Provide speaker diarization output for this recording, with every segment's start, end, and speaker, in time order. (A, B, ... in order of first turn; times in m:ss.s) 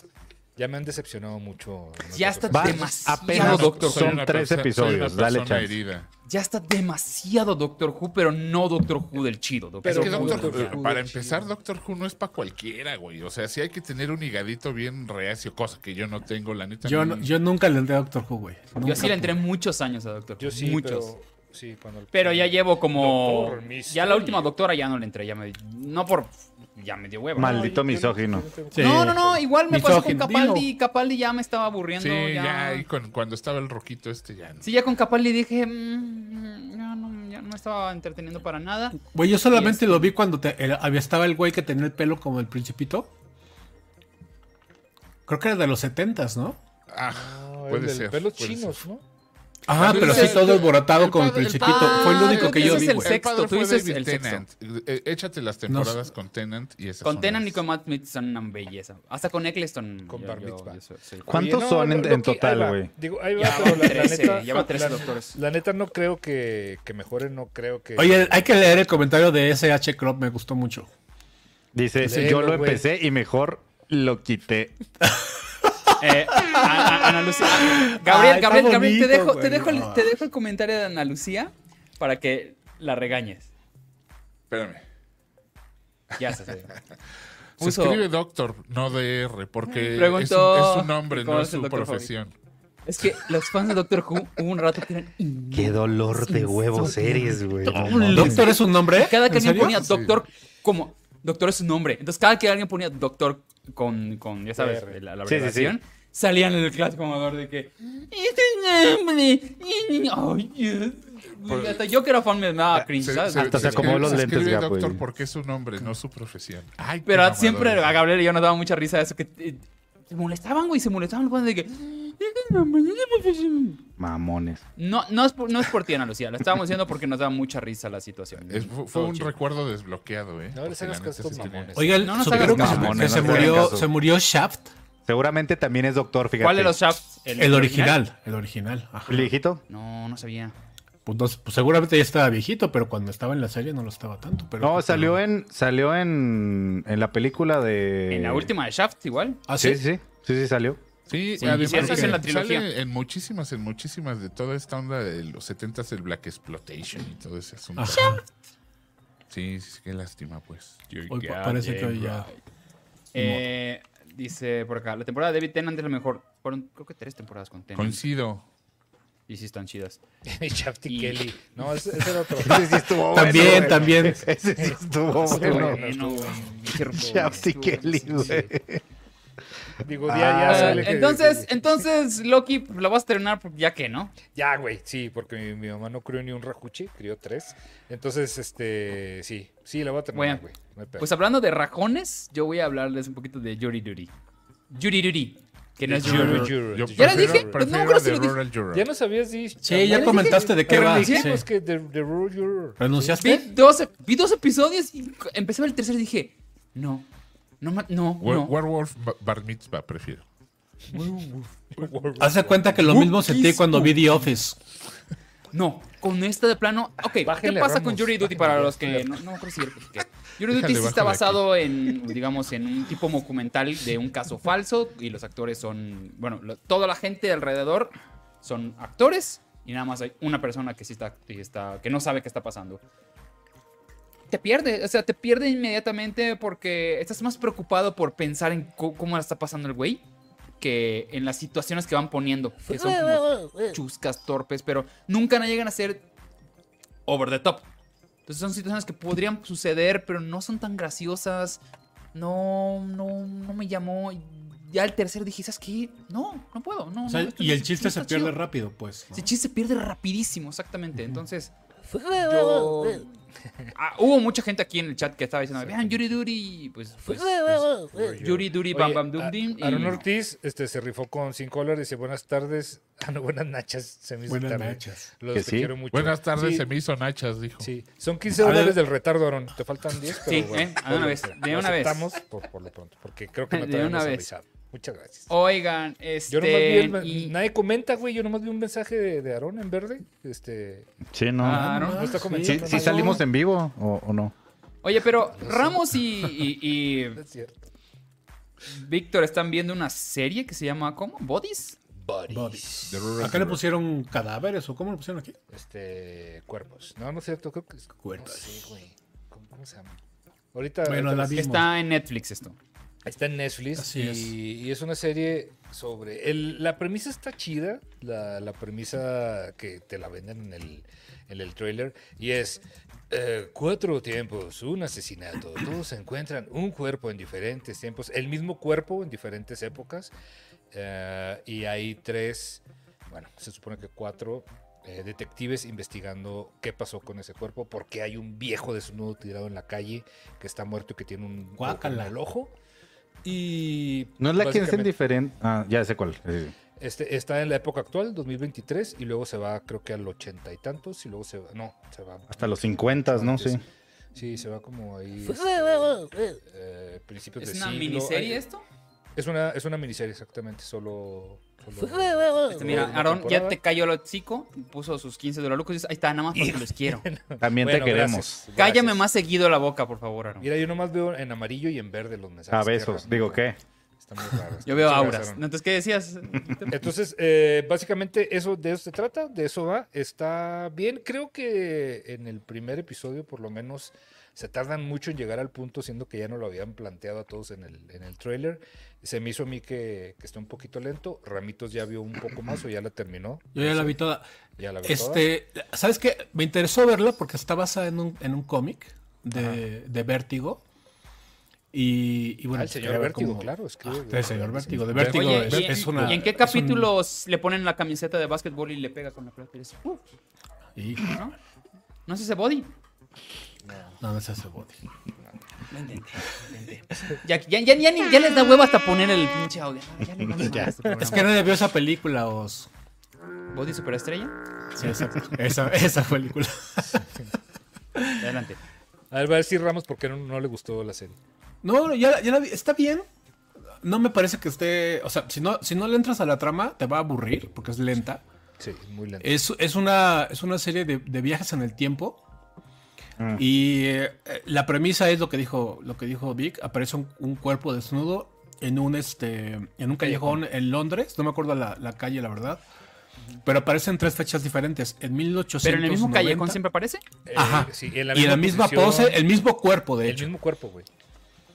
0:00.6-0:03.1 A
0:02.1-0:04.2 B
0:02.5-0:05.7 C
0:03.3-0:06.1 D
0:06.2-0:10.8 B
0:09.8-0:11.5 A
0:09.8-0:17.3 D
0:16.8-0:19.4 E
0:18.8-0:21.1 B
0:20.4-0:24.5 A
0:22.1-0:27.8 B
0:27.4-0:28.5 C
0:27.4-0:29.5 A
0:28.7-0:30.7 E
0:28.8-0:32.8 B
0:32.0-0:34.7 D
0:34.6-0:39.0 B
0:39.0-0:43.1 E
0:39.5-0:40.1 B
0:45.3-0:46.6 E
0:46.9-0:48.8 D
0:47.1-0:49.0 A
0:49.7-0:53.2 E
0:49.7-0:57.6 D
0:49.8-0:50.7 B
0:51.6-0:54.4 B
0:55.7-0:56.0 E
0:57.0-1:01.3 B
1:00.1-1:08.8 A
1:01.3-1:02.9 C
1:03.4-1:05.4 B
1:08.0-1:10.9 E
1:11.7-1:14.8 C
1:12.0-1:12.8 A
1:15.0-1:20.1 E
1:16.0-1:23.5 B
1:24.5-1:24.8 D
1:26.2-1:26.7 B
1:27.6-1:32.3 D
1:27.6-1:28.0 B
1:29.7-1:32.1 B
1:32.8-1:37.1 B
1:35.5-1:38.5 C
1:36.8-1:39.8 E
1:38.1-1:54.2 B
1:39.7-1:40.1 D
1:44.6-1:45.0 A
1:45.2-1:45.8 C
1:52.7-1:55.0 C
1:53.0-1:58.0 D
1:57.0-2:03.8 B
2:04.0-2:04.6 C
2:04.8-2:09.3 B
2:08.5-2:11.7 D
2:10.5-2:12.3 A
2:11.7-2:14.7 E
2:12.0-2:13.7 B
2:12.3-2:13.9 C
2:12.3-2:13.2 D
2:15.0-2:16.9 C
2:16.4-2:18.0 B
2:17.4-2:19.3 E
2:19.1-2:19.6 C
2:19.7-2:20.5 B
2:21.0-2:25.2 E
2:24.6-2:28.5 C
2:28.1-2:29.4 B
2:29.5-2:29.8 E
2:29.6-2:30.8 C
2:31.1-2:38.2 D
2:31.4-2:32.2 E
2:31.4-2:32.7 B
2:37.8-2:38.2 E
2:39.3-2:42.1 D
2:41.1-2:42.3 E
2:41.7-2:42.0 B
2:43.1-2:48.0 B
2:43.1-2:43.4 E
2:47.8-2:48.4 D
2:49.3-2:50.0 B
2:50.3-2:58.5 A
2:50.9-2:51.2 B
2:52.4-2:56.0 C
2:53.0-2:54.3 E
2:55.2-2:58.5 B
2:56.7-2:58.8 C
2:59.8-3:01.8 A
3:00.0-3:00.9 C
3:00.4-3:04.1 B
3:04.3-3:11.1 A
3:10.1-3:10.4 B
3:11.0-3:14.1 B
3:14.7-3:18.4 B
3:15.8-3:17.6 A
3:16.0-3:16.5 E
3:16.0-3:18.9 D
3:18.7-3:23.1 A
3:19.6-3:21.5 E
3:19.8-3:21.3 B
3:22.8-3:23.4 E
3:23.2-3:27.1 B
3:27.6-3:28.5 B
3:28.2-3:30.2 D
3:30.9-3:32.9 A
3:32.2-3:34.6 E
3:32.8-3:34.0 B
3:35.5-3:52.8 B
3:37.2-3:39.2 A
3:40.5-3:41.5 D
3:54.3-4:00.0 B
4:00.6-4:06.0 B
4:07.0-4:07.7 B
4:08.2-4:11.6 B
4:12.1-4:18.4 B
4:17.0-4:19.3 E
4:19.1-4:21.5 B
4:22.1-4:23.1 B
4:23.7-4:30.0 B
4:25.6-4:26.1 A
4:27.9-4:36.6 A
4:34.3-4:35.1 E
4:35.3-4:35.7 C
4:35.9-4:37.7 D
4:37.6-4:45.3 A
4:38.4-4:38.8 E
4:40.2-4:42.1 B
4:43.5-4:44.3 B
4:45.3-4:47.3 B
4:46.3-4:50.9 A
4:51.1-4:51.7 C
4:51.4-4:52.1 B
4:51.5-4:53.2 E
4:51.7-4:53.2 A
4:52.4-4:54.3 C
4:54.8-4:57.2 B
4:55.4-4:56.0 A
4:57.1-4:57.6 A
4:58.7-5:01.8 B
5:02.0-5:02.9 A
5:02.3-5:05.4 E
5:02.9-5:03.6 D
5:05.5-5:09.9 A
5:08.0-5:08.6 E
5:10.5-5:11.5 A
5:10.8-5:11.7 E
5:11.3-5:12.6 B
5:13.0-5:30.1 A
5:13.8-5:14.3 E
5:30.7-5:42.5 A
5:41.6-5:42.1 E
5:43.2-5:44.9 A
5:44.2-5:46.5 C
5:46.8-5:53.6 A
5:52.3-5:53.6 C
5:54.1-5:58.4 A
5:57.4-5:58.6 B
5:59.2-6:03.6 A
6:02.5-6:07.0 B
6:06.3-6:09.0 A
6:07.4-6:08.5 C
6:08.6-6:10.5 B
6:10.4-6:13.4 A
6:12.5-6:13.6 C
6:14.0-6:15.4 A
6:14.6-6:16.8 B
6:16.7-6:34.0 A
6:33.5-6:34.3 E
6:34.6-6:35.3 A
6:34.8-6:40.6 E
6:39.4-6:39.6 A
6:41.7-6:46.9 E
6:42.5-6:46.2 A
6:44.9-6:50.0 B
6:50.8-6:51.2 E
6:51.0-6:51.3 B
6:52.0-6:52.7 B
6:53.6-6:54.0 A
6:54.0-6:54.8 E
6:55.7-7:01.5 B
7:00.5-7:02.7 E
7:03.5-7:04.9 B
7:04.8-7:07.1 E
7:08.0-7:08.2 E
7:08.2-7:08.6 B
7:09.1-7:11.2 A
7:11.6-7:13.0 E
7:13.8-7:18.2 E
7:18.6-7:19.4 A
7:19.2-7:22.2 E
7:23.4-7:32.6 E
7:30.0-7:30.4 A
7:33.4-7:36.6 E
7:35.6-7:37.0 B
7:37.2-7:39.2 A
7:37.3-7:40.3 E
7:40.0-7:40.9 A